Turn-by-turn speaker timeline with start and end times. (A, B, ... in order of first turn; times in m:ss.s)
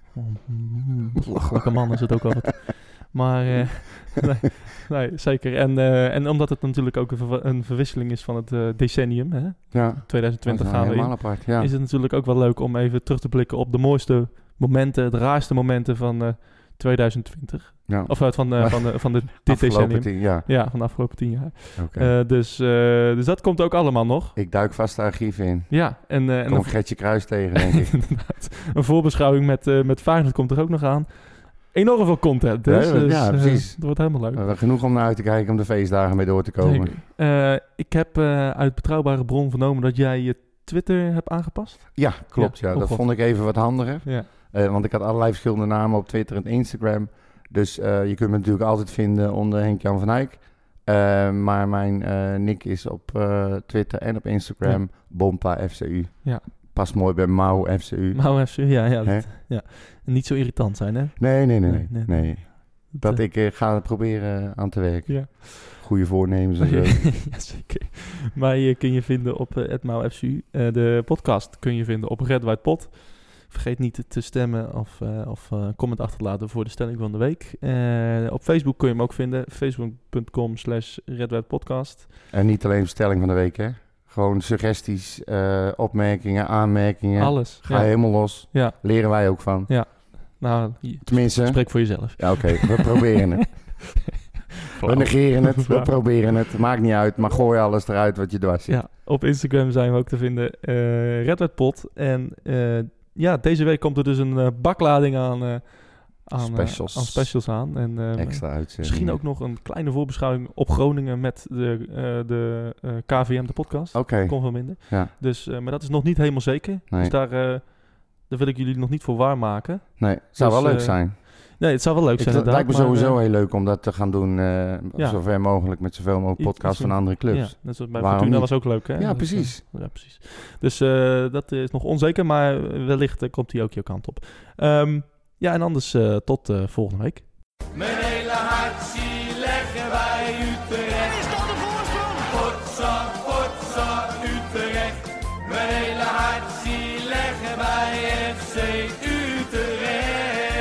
0:00.1-0:24.3 A
0:01.3-0:01.7 B
0:09.7-0:11.7 B
0:17.9-0:20.5 B
0:21.8-0:22.1 B
0:24.4-0:27.9 B
0:25.7-0:34.4 A
0:32.6-0:37.0 B
0:36.6-0:44.3 A
0:41.9-0:59.2 B
0:58.1-1:03.2 A
1:01.2-1:07.2 B
1:05.1-1:05.8 A
1:06.6-1:22.1 A
1:22.3-1:29.8 B
1:27.2-1:33.8 A
1:31.0-1:34.0 B
1:34.8-1:35.9 A
1:34.8-1:38.8 B
1:38.7-2:03.2 A
1:46.3-1:49.2 B
1:53.9-1:55.1 B
1:56.9-1:57.1 B
2:00.0-2:01.6 B
2:02.2-2:09.6 B
2:05.0-2:05.8 A
2:06.4-2:17.3 A
2:25.9-2:29.8 C